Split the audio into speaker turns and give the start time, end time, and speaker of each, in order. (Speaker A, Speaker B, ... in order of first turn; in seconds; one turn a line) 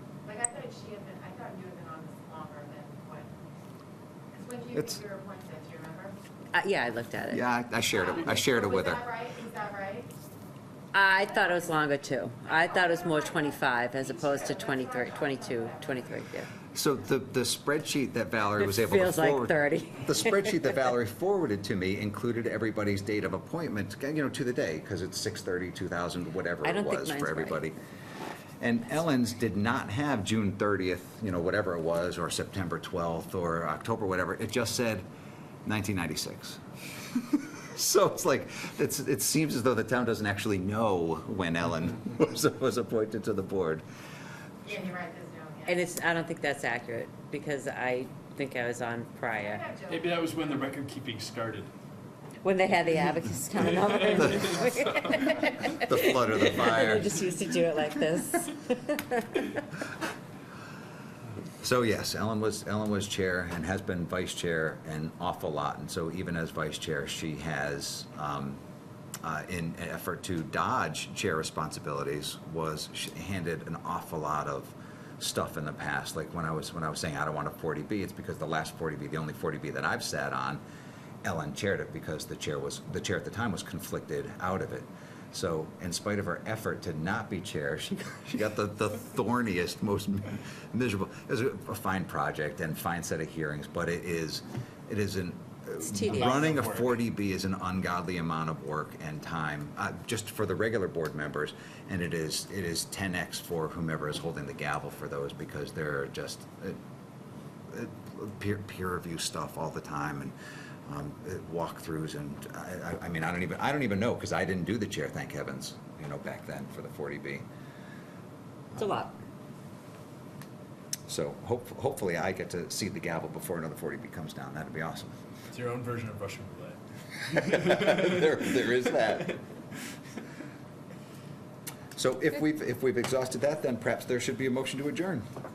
Speaker A: 0.2-3.3
Speaker A: 4.3-6.2
Speaker B: 6.5-7.4
Speaker C: 7.3-9.0
Speaker A: 7.9-10.1
Speaker B: 10.9-16.5
Speaker A: 11.1-11.8
Speaker A: 12.4-16.3
Speaker C: 16.7-27.8
Speaker B: 18.6-20.7
Speaker B: 26.6-27.6
Speaker C: 28.6-35.0
Speaker C: 35.6-36.6
Speaker C: 37.1-43.8
Speaker A: 44.6-45.8
Speaker B: 45.7-49.7
Speaker A: 49.4-50.2
Speaker D: 49.9-51.7
Speaker B: 52.4-59.4
Speaker D: 53.8-55.2
Speaker C: 54.3-54.6
Speaker C: 55.8-57.1
Speaker C: 61.6-68.6
Speaker C: 69.2-80.6
Speaker C: 81.2-106.8
Speaker B: 95.9-96.4
Speaker D: 96.0-97.0
Speaker C: 107.7-110.3
Speaker C: 110.9-117.5
Speaker B: 118.8-119.1
Speaker C: 121.1-125.1
Speaker D: 125.5-126.8
Speaker C: 127.3-129.3
Speaker D: 127.4-128.1
Speaker C: 132.0-135.3